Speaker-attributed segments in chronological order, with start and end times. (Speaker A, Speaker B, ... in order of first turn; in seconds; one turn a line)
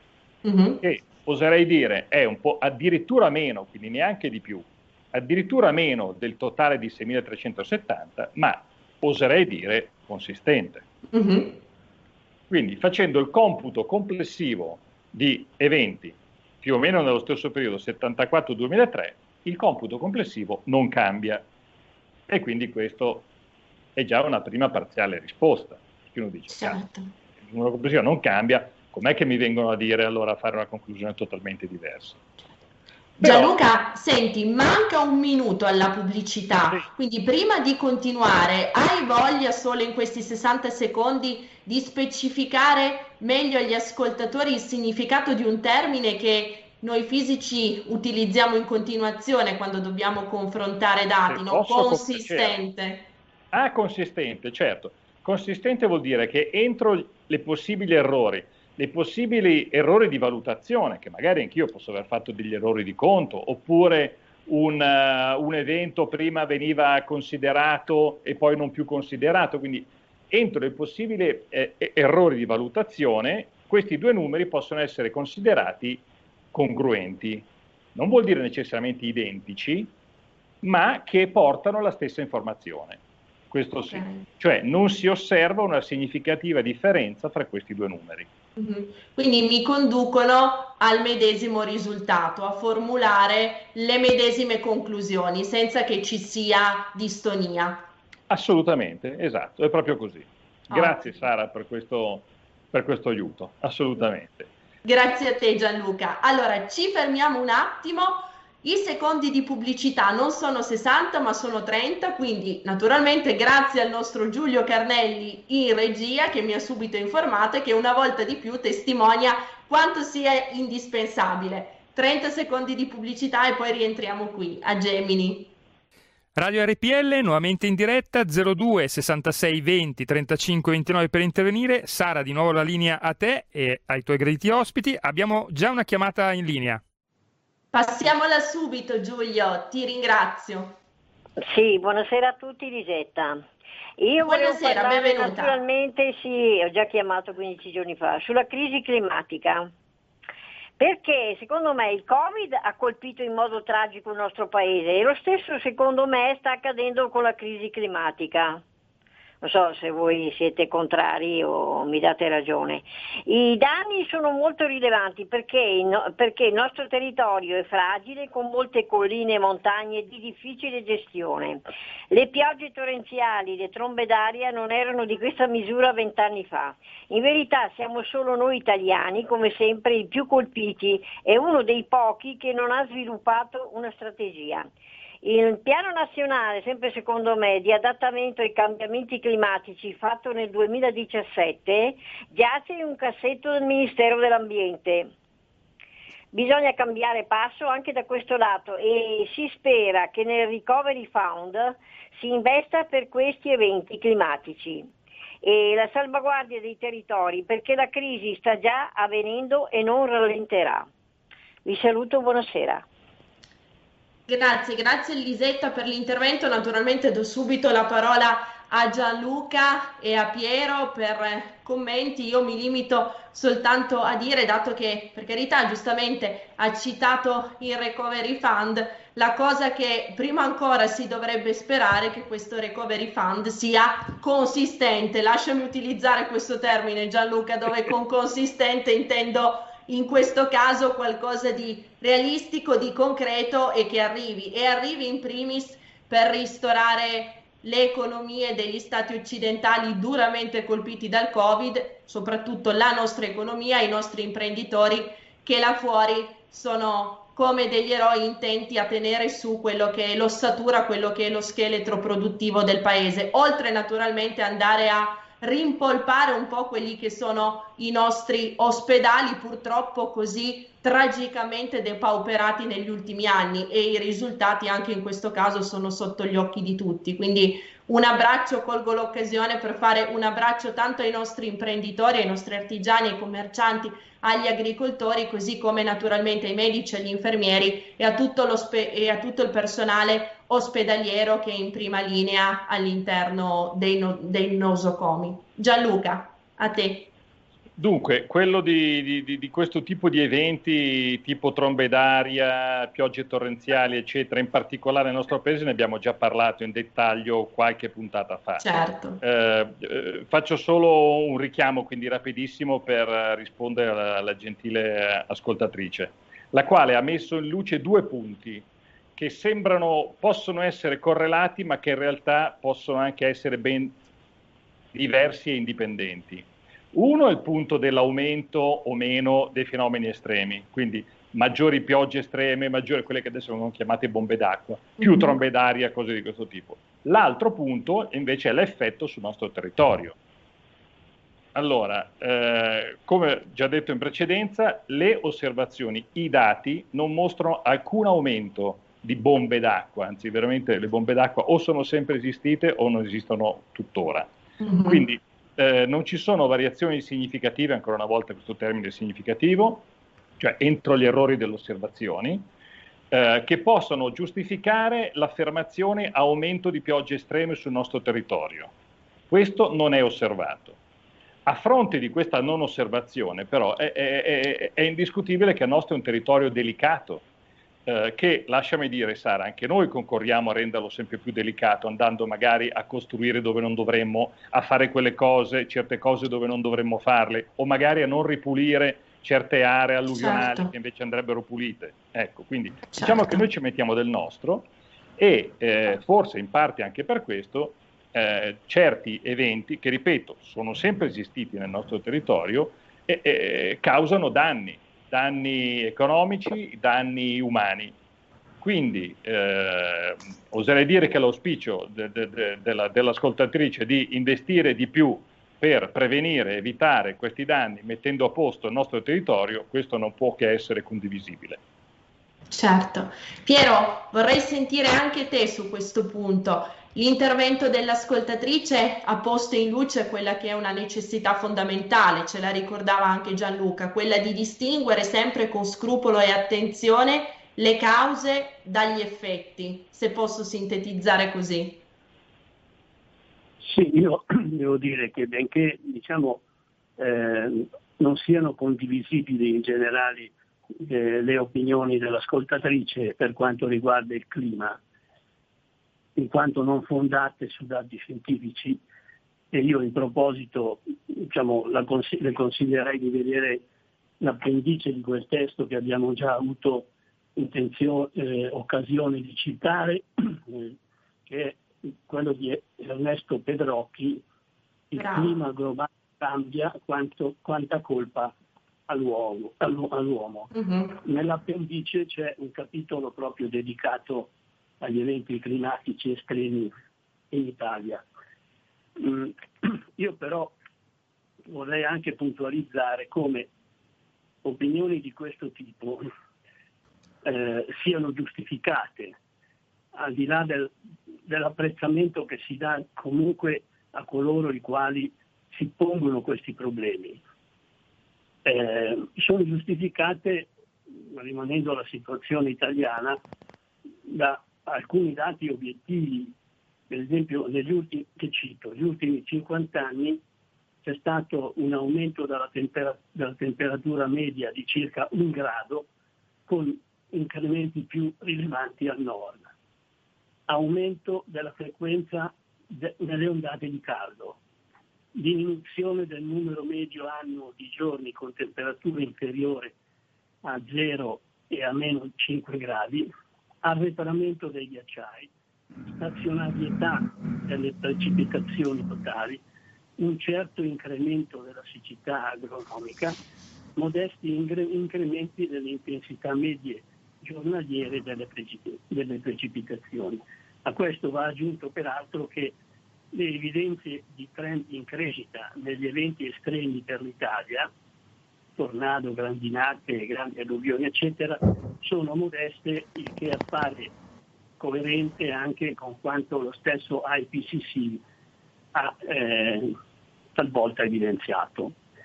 Speaker A: 0.4-0.8
Speaker B: 0.8-10.8
Speaker A: 11.1-11.6
Speaker B: 12.5-21.4
Speaker B: 22.3-23.3
Speaker B: 23.9-26.8
Speaker A: 26.5-27.1
Speaker B: 27.4-32.2
Speaker B: 33.2-33.5
Speaker A: 33.2-53.1
Speaker B: 51.3-52.5
Speaker B: 53.5-76.0
Speaker B: 76.5-79.9
Speaker B: 80.6-83.0
Speaker B: 83.5-88.3
Speaker A: 83.8-84.2
Speaker A: 88.6-97.9
Speaker B: 98.3-104.5
Speaker A: 100.7-101.2
Speaker A: 104.8-125.5
Speaker C: 126.3-136.8
Speaker A: 137.7-140.8
Speaker D: 141.4-143.4
Speaker D: 144.0-149.7
Speaker A: 144.2-145.5
Speaker D: 150.8-158.6
Speaker D: 159.4-184.7
Speaker D: 185.2-195.1
Speaker D: 196.3-204.9
Speaker D: 205.4-210.9
Speaker D: 211.6-212.8
Speaker A: 214.3-297.1
Speaker B: 297.8-308.6
Speaker A: 308.6-309.2
Speaker B: 309.2-324.0
Speaker B: 324.9-340.2
Speaker A: 335.0-335.4
Speaker B: 341.5-354.3
Speaker A: 354.6-355.0
Speaker B: 354.9-359.9
Speaker B: 360.4-362.4
Speaker B: 363.1-368.7
Speaker B: 369.3-370.8
Speaker B: 371.4-377.2
Speaker B: 377.9-407.9
Speaker A: 390.1-390.7
Speaker A: 392.9-393.4
Speaker B: 408.6-421.6
Speaker A: 422.5-441.8
Speaker E: 443.6-446.4
Speaker E: 447.0-454.8
Speaker E: 456.1-458.8
Speaker E: 459.5-463.6
Speaker E: 464.2-470.8
Speaker E: 471.3-474.2
Speaker E: 474.9-478.3
Speaker A: 474.9-475.3
Speaker E: 478.9-486.7
Speaker A: 480.5-481.0
Speaker E: 487.3-488.0
Speaker E: 489.0-490.5
Speaker E: 491.5-493.5
Speaker E: 494.4-496.1
Speaker E: 497.2-499.2
Speaker E: 499.9-500.7
Speaker E: 501.3-507.2
Speaker E: 508.4-513.2
Speaker E: 514.1-516.3
Speaker E: 516.9-520.2
Speaker E: 520.8-525.9
Speaker E: 526.5-529.5
Speaker E: 530.5-534.4
Speaker E: 535.1-539.7
Speaker E: 540.4-543.1
Speaker E: 543.6-545.3
Speaker E: 545.9-549.4
Speaker E: 550.0-553.1
Speaker E: 553.8-562.5
Speaker E: 563.1-567.7
Speaker E: 568.6-573.9
Speaker E: 574.6-578.0
Speaker E: 578.7-579.7
Speaker E: 580.3-581.8